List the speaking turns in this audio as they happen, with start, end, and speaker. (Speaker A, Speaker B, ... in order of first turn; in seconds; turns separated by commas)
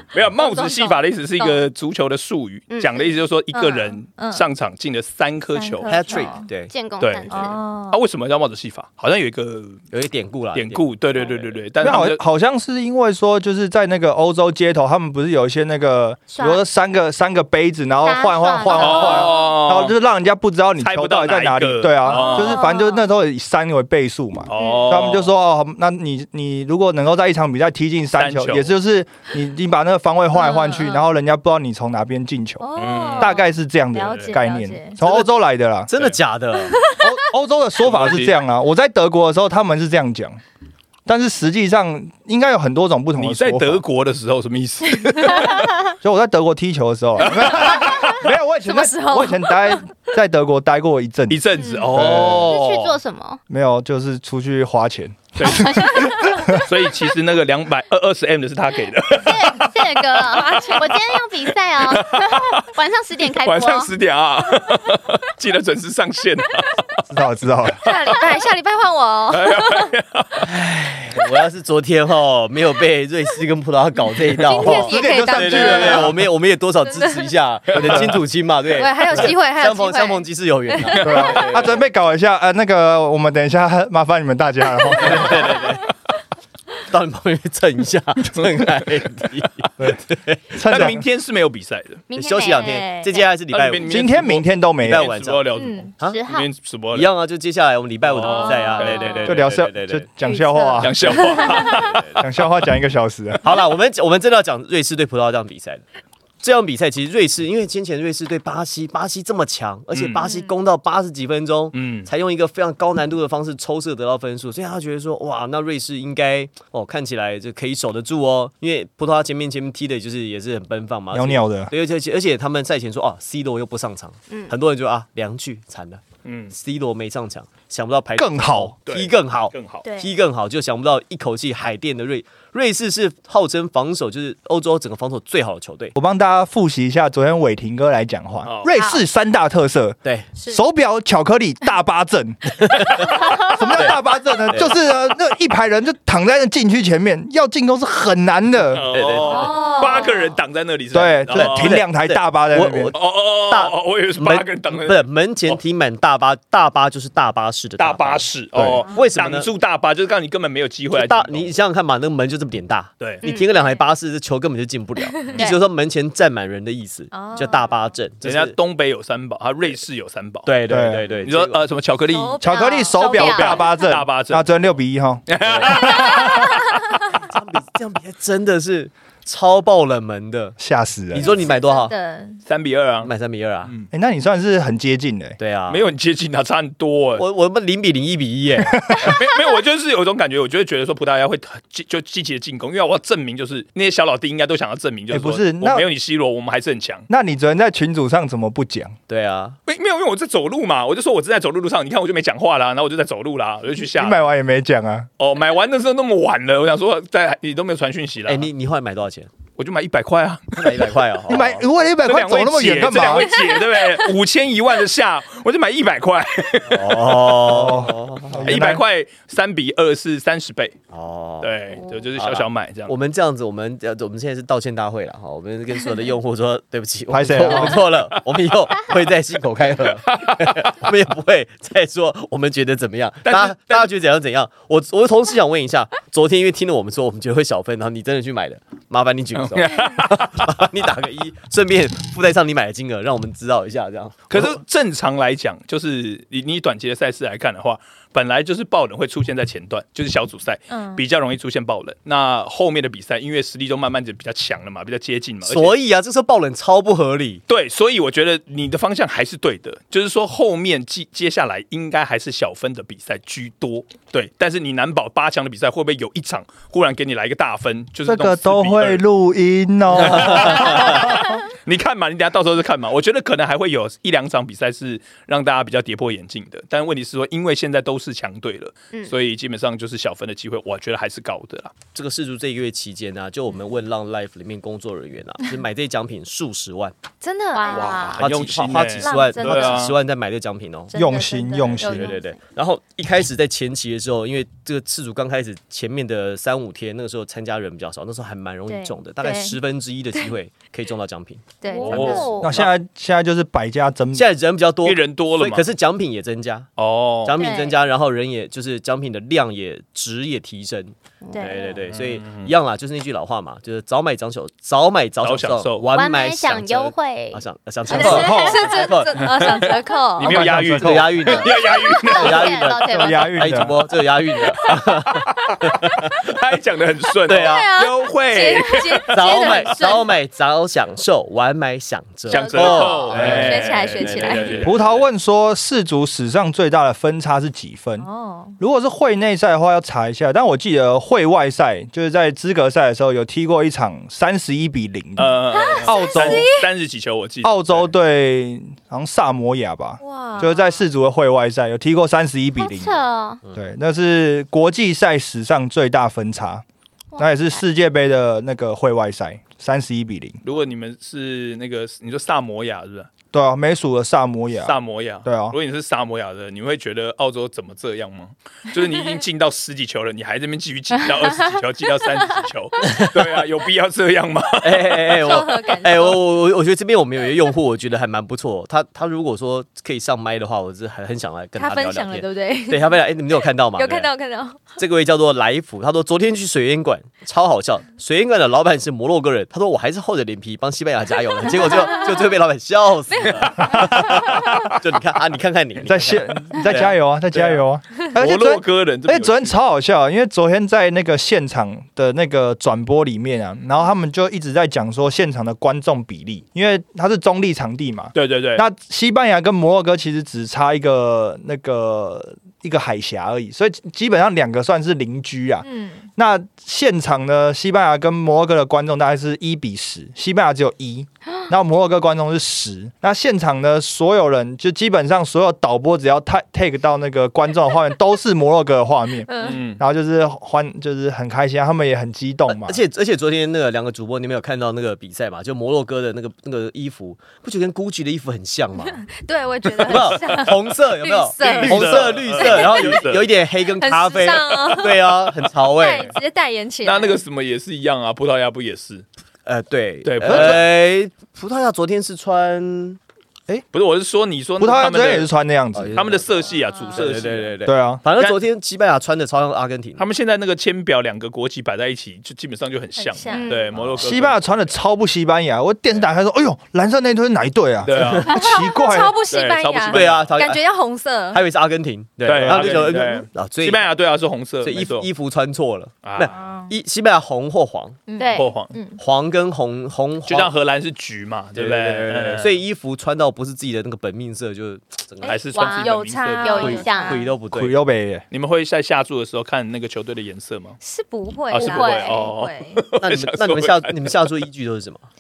Speaker A: 0.1-5.9, Speaker B: 0.4-1.5, Speaker C: 2.7-3.1, Speaker B: 3.5-4.5, Speaker B: 5.5-6.5, Speaker D: 5.9-6.7, Speaker C: 6.7-7.6, Speaker A: 7.0-9.8, Speaker B: 7.3-8.0, Speaker D: 9.9-11.6, Speaker A: 10.5-12.2, Speaker E: 11.8-35.9, Speaker C: 16.3-16.6, Speaker C: 18.0-19.5, Speaker A: 18.8-19.9, Speaker A: 20.8-22.6, Speaker B: 22.1-23.1, Speaker A: 24.5-25.3, Speaker C: 24.6-24.9, Speaker A: 28.2-28.7, Speaker B: 30.3-31.1, Speaker B: 32.6-35.0, Speaker A: 32.8-33.4, Speaker D: 35.0-35.3, Speaker D: 35.9-36.8, Speaker B: 36.6-37.1, Speaker E: 37.0-40.4, Speaker A: 37.8-38.4, Speaker E: 41.1-43.8, Speaker A: 43.2-45.7, Speaker B: 45.1-45.4, Speaker E: 46.0-51.4, Speaker A: 47.2-48.2, Speaker B: 48.7-49.9, Speaker A: 51.3-53.0, Speaker B: 51.6-51.9, Speaker E: 51.9-52.5, Speaker C: 52.4-53.4, Speaker E: 53.5-56.7, Speaker A: 55.4-62.7, Speaker C: 55.5-56.6, Speaker C: 59.1-63.9, Speaker B: 60.3-60.9, Speaker A: 63.2-67.0, Speaker E: 67.1-67.8, Speaker B: 67.8-69.9, Speaker A: 69.3-70.4, Speaker D: 70.4-81.8, Speaker B: 74.4-76.1, Speaker E: 74.5-76.2, Speaker B: 76.8-77.4, Speaker E: 77.7-78.2, Speaker A: 77.8-78.1, Speaker B: 78.7-81.2, Speaker A: 80.9-81.7, Speaker E: 81.0-85.6, Speaker D: 84.9-85.9, Speaker B: 85.2-85.6, Speaker D: 86.9-90.6, Speaker A: 88.4-89.3, Speaker E: 90.5-91.1, Speaker A: 90.6-92.0, Speaker C: 92.1-93.2, Speaker D: 92.1-93.9, Speaker B: 92.5-93.2, Speaker A: 93.5-97.1, Speaker E: 93.8-95.1, Speaker D: 94.8-95.5, Speaker C: 95.6-96.5, Speaker B: 95.6-95.9, Speaker D: 96.9-100.1, Speaker A: 98.0-99.5, Speaker B: 98.2-99.3, Speaker E: 99.2-103.4, Speaker B: 100.2-101.7, Speaker A: 100.8-102.3, Speaker D: 101.6-102.2, Speaker D: 103.4-105.8, Speaker D: 106.4-136.0, Speaker A: 109.9-110.2, Speaker A: 111.7-112.1, Speaker E: 121.1-121.7, Speaker A: 126.2-126.5, Speaker E: 128.2-128.8, Speaker A: 128.9-129.8, Speaker B: 129.8-130.1, Speaker E: 136.0-148.9, Speaker A: 138.4-138.7, Speaker C: 138.7-139.0, Speaker D: 140.0-140.3, Speaker D: 142.5-144.7, Speaker C: 143.2-143.6, Speaker A: 148.7-151.8, Speaker D: 148.9-149.6, Speaker B: 149.2-150.3, Speaker E: 150.9-152.9, Speaker D: 151.3-159.5, Speaker A: 152.9-155.6, Speaker A: 157.8-161.5, Speaker E: 158.6-158.8, Speaker D: 160.9-168.6, Speaker C: 163.2-163.5, Speaker B: 163.3-163.9, Speaker B: 165.1-165.4, Speaker C: 165.3-165.6, Speaker B: 167.1-167.7, Speaker A: 168.2-170.5, Speaker D: 170.4-171.7, Speaker E: 170.7-171.1, Speaker A: 171.2-172.4, Speaker B: 172.1-173.9, Speaker E: 172.4-175.3, Speaker C: 172.4-173.7, Speaker A: 173.2-174.5, Speaker A: 175.3-176.8, Speaker D: 175.4-176.4, Speaker D: 177.0-180.6, Speaker E: 180.6-181.4, Speaker D: 181.1-181.9, Speaker B: 181.2-182.4, Speaker A: 182.5-183.1, Speaker D: 183.0-183.7, Speaker E: 183.9-185.4, Speaker D: 185.4-185.9, Speaker A: 185.7-187.2, Speaker D: 187.2-189.1, Speaker E: 188.7-189.2, Speaker A: 188.9-197.1, Speaker E: 195.1-195.9, Speaker E: 197.1-199.0, Speaker D: 199.1-199.6, Speaker A: 199.7-204.2, Speaker E: 203.8-205.1, Speaker A: 205.2-208.5, Speaker D: 208.3-209.3, Speaker A: 209.6-210.9, Speaker D: 210.5-211.7, Speaker E: 211.3-213.3, Speaker A: 212.0-217.8, Speaker D: 216.7-218.5, Speaker E: 217.5-218.8, Speaker A: 218.3-220.8, Speaker D: 220.9-221.6, Speaker A: 221.4-222.9, Speaker D: 222.2-244.6, Speaker E: 227.1-227.8, Speaker A: 227.4-228.2, Speaker A: 229.8-230.6, Speaker A: 233.2-233.9, Speaker A: 239.3-240.5, Speaker A: 244.3-255.7, Speaker B: 250.7-251.0, Speaker D: 255.4-257.4, Speaker A: 257.5-269.0, Speaker E: 268.1-271.1, Speaker A: 269.9-281.7, Speaker D: 270.1-271.0, Speaker D: 281.9-286.9, Speaker B: 287.2-288.2, Speaker C: 287.5-288.2, Speaker A: 287.7-290.0, Speaker D: 288.2-290.9, Speaker B: 289.0-289.9, Speaker B: 290.9-292.2, Speaker E: 290.9-292.1, Speaker C: 291.8-292.4, Speaker D: 291.8-302.1, Speaker B: 298.7-299.6, Speaker B: 301.6-302.4, Speaker C: 301.7-302.6, Speaker A: 301.9-302.7, Speaker E: 302.4-304.3, Speaker D: 304.1-306.7, Speaker A: 304.8-305.7, Speaker A: 306.8-307.4, Speaker D: 307.2-319.6, Speaker B: 307.4-307.8, Speaker C: 311.2-311.6, Speaker B: 311.3-311.8, Speaker A: 311.9-312.5, Speaker A: 315.2-315.9, Speaker C: 315.9-318.8, Speaker B: 317.9-320.4, Speaker E: 317.9-318.6, Speaker A: 319.3-319.6, Speaker E: 320.2-321.4, Speaker A: 320.2-322.7, Speaker D: 320.4-326.2, Speaker C: 321.5-323.6, Speaker E: 322.9-323.7, Speaker A: 324.5-329.7, Speaker D: 327.3-327.7, Speaker B: 327.4-330.1, Speaker D: 329.1-335.1, Speaker A: 332.3-334.8, Speaker B: 332.3-334.6, Speaker E: 333.2-333.6, Speaker E: 334.6-338.1, Speaker B: 338.0-338.6, Speaker E: 338.6-346.5, Speaker A: 345.2-347.9, Speaker B: 345.5-346.7, Speaker E: 347.4-353.0, Speaker B: 350.0-350.8, Speaker C: 352.6-353.4, Speaker E: 353.5-356.6, Speaker C: 357.1-357.6, Speaker E: 357.2-360.4, Speaker A: 360.4-363.1, Speaker E: 363.3-365.6, Speaker A: 364.6-375.4, Speaker D: 372.8-373.4, Speaker D: 374.6-384.1, Speaker B: 375.2-376.2, Speaker B: 381.6-383.1, Speaker B: 383.7-384.8, Speaker D: 384.8-397.6, Speaker B: 391.5-392.3, Speaker B: 393.1-394.5, Speaker A: 393.2-394.8, Speaker E: 395.8-415.6, Speaker A: 398.1-399.6, Speaker A: 408.1-408.6, Speaker B: 415.6-416.1, Speaker E: 416.2-432.8, Speaker B: 429.3-429.6, Speaker A: 429.4-429.8, Speaker D: 432.5-439.0, Speaker B: 438.8-443.1, Speaker A: 439.9-440.4, Speaker D: 439.9-446.1, Speaker A: 441.4-443.3, Speaker B: 443.7-447.2, Speaker A: 446.8-449.1, Speaker D: 449.4-453.0, Speaker A: 450.0-450.7, Speaker E: 450.2-450.6, Speaker A: 453.7-455.3, Speaker E: 454.6-456.0, Speaker D: 455.7-456.3, Speaker A: 455.9-457.6, Speaker B: 456.5-457.2, Speaker D: 456.9-460.1, Speaker E: 457.7-458.0, Speaker A: 458.1-458.4, Speaker A: 460.0-464.7, Speaker B: 463.0-463.6, Speaker C: 463.3-463.8, Speaker D: 463.7-464.2, Speaker E: 464.0-469.2, Speaker A: 467.8-468.3, Speaker D: 468.0-468.3, Speaker B: 468.3-471.4, Speaker A: 469.3-470.4, Speaker D: 469.9-470.6, Speaker D: 471.3-473.8, Speaker A: 472.2-475.1, Speaker E: 472.4-473.0, Speaker D: 474.6-478.0, Speaker A: 476.0-476.3, Speaker B: 476.3-476.7, Speaker B: 478.1-479.0, Speaker C: 478.2-478.5, Speaker A: 478.4-478.7, Speaker D: 479.0-480.5, Speaker A: 480.3-482.6, Speaker D: 481.6-485.4, Speaker B: 485.2-487.3, Speaker A: 485.2-486.9, Speaker C: 485.5-487.2, Speaker D: 486.6-487.8, Speaker E: 487.5-488.2, Speaker A: 488.3-490.8, Speaker B: 490.8-492.8, Speaker A: 491.5-494.4, Speaker C: 491.6-492.3, Speaker D: 493.0-495.1